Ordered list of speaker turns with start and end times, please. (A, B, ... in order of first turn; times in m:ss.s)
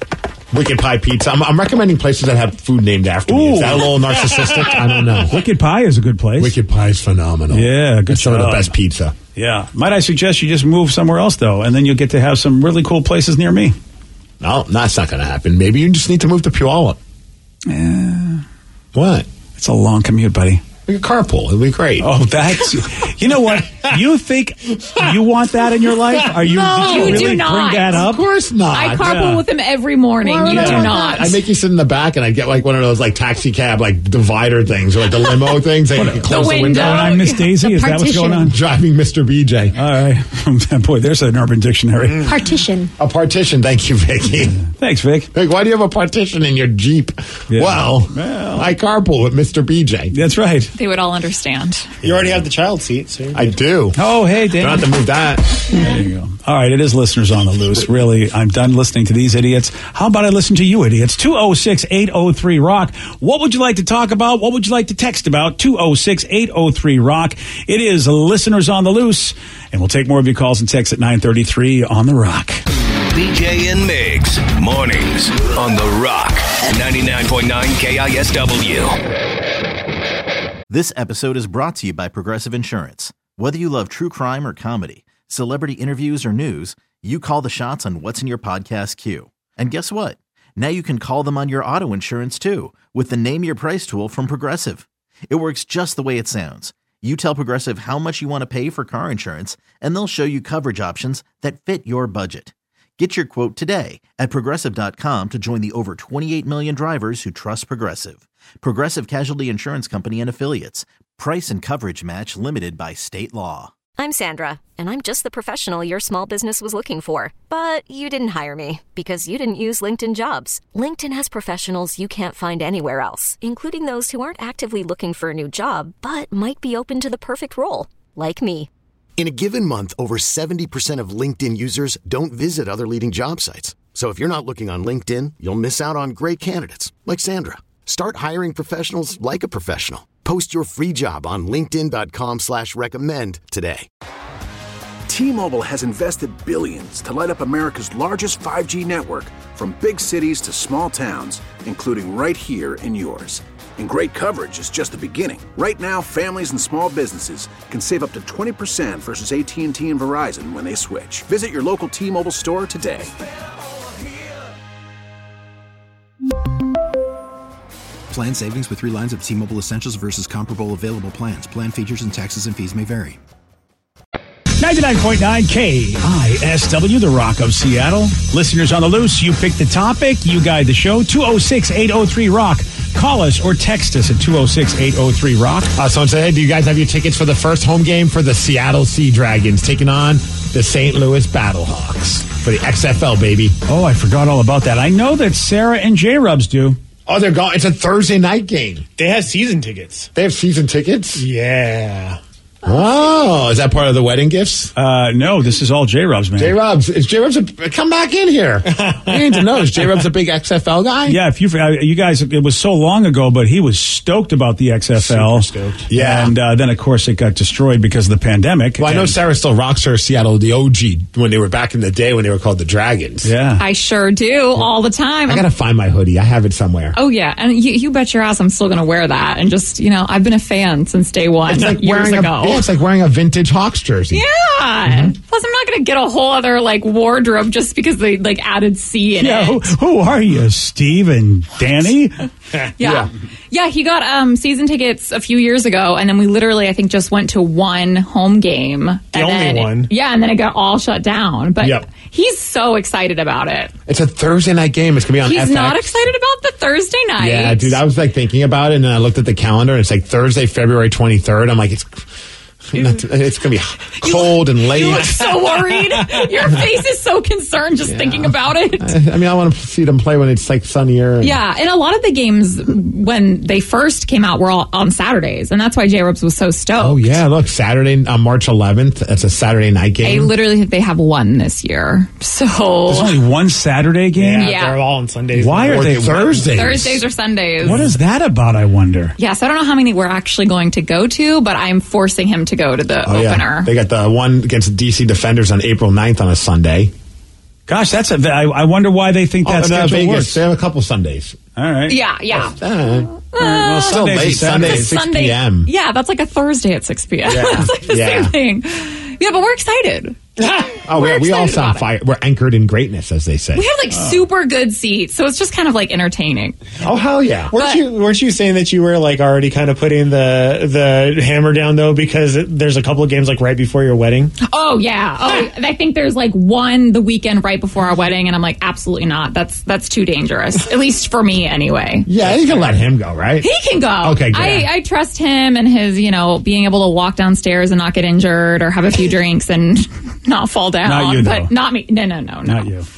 0:00.5-0:05.4 A
0:03.3-0:04.0 B
0:04.3-0:05.2 C
0:05.3-0:06.6 B
0:06.4-0:09.2 A
0:07.5-0:08.7 B
0:09.4-0:13.8 B
0:14.4-0:17.0 A
0:17.7-0:18.4 B
0:18.9-0:19.3 A
0:19.6-0:20.6 B
0:20.9-0:22.1 A
0:22.0-0:28.2 B
0:26.2-0:26.6 C
0:26.7-0:28.1 D
0:26.9-0:29.1 A
0:28.7-0:31.4 D
0:29.0-0:29.4 B
0:30.2-0:31.2 E
0:30.4-0:37.1 A
0:36.0-0:38.6 B
0:36.3-0:37.4 D
0:37.4-0:38.5 E
0:38.5-0:39.8 A
0:39.8-0:42.4 B
0:42.2-0:42.9 E
0:43.0-0:44.6 A
0:44.6-0:45.3 B
0:45.3-0:50.2 A
0:47.5-0:48.7 B
0:50.1-0:50.7 B
0:50.8-0:52.0 D
0:52.0-0:53.5 C
0:53.3-0:54.0 A
0:54.0-0:54.9 B
0:54.6-0:55.8 A
0:55.7-1:12.6 B
1:13.1-1:19.0 F
1:20.7-1:53.7 G
1:54.0-2:08.7 H
2:09.2-2:23.9 I
2:25.1-2:43.1 J
2:48.1-2:53.2 K
2:54.6-3:05.7 B
3:05.8-3:13.6 A
3:13.7-3:16.8 B
3:17.1-3:18.9 A
3:19.0-3:20.1 C
3:20.2-3:21.2 A
3:21.2-3:22.2 C
3:22.6-3:24.7 A
3:24.8-3:26.6 B
3:26.4-3:31.2 A
3:28.7-3:29.9 C
3:31.1-3:39.2 B
3:35.0-3:35.9 C
3:35.9-3:36.4 A
3:38.8-3:43.3 A
3:43.2-3:43.6 B
3:43.6-3:45.5 D
3:45.3-3:47.0 A
3:47.0-3:52.7 D
3:51.5-3:54.2 A
3:54.1-3:59.8 D
3:59.2-4:02.2 B
4:02.8-4:13.7 D
4:02.8-4:03.1 A
4:09.1-4:09.9 C
4:11.6-4:11.8 A
4:13.9-4:15.9 A
4:15.2-4:17.8 D
4:17.2-4:22.0 A
4:22.7-4:25.5 A
4:24.0-4:28.9 D
4:24.8-4:26.0 C
4:27.9-4:31.4 A
4:31.2-4:37.2 D
4:36.8-4:40.3 A
4:40.0-4:43.2 D
4:42.9-4:44.5 B
4:44.2-4:46.7 C
4:44.4-4:44.8 D
4:45.3-4:46.4 B
4:45.7-4:47.0 A
4:46.5-4:47.9 D
4:47.6-4:49.2 B
4:49.2-4:53.7 D
4:53.0-4:56.9 A
4:57.7-5:00.4 B
4:59.4-5:01.4 A
5:01.6-5:02.0 B
5:01.9-5:02.6 D
5:02.3-5:03.2 A
5:03.3-5:04.0 D
5:03.4-5:05.0 B
5:03.8-5:05.7 A
5:04.6-5:10.2 D
5:07.2-5:08.3 A
5:10.4-5:10.8 C
5:10.9-5:13.7 A
5:10.9-5:11.8 D
5:13.6-5:16.6 D
5:16.8-5:17.5 A
5:17.5-5:24.4 C
5:17.5-5:17.8 D
5:24.4-5:32.1 D
5:32.1-5:34.7 A
5:33.4-5:42.7 D
5:40.8-5:41.5 B
5:42.4-5:42.9 B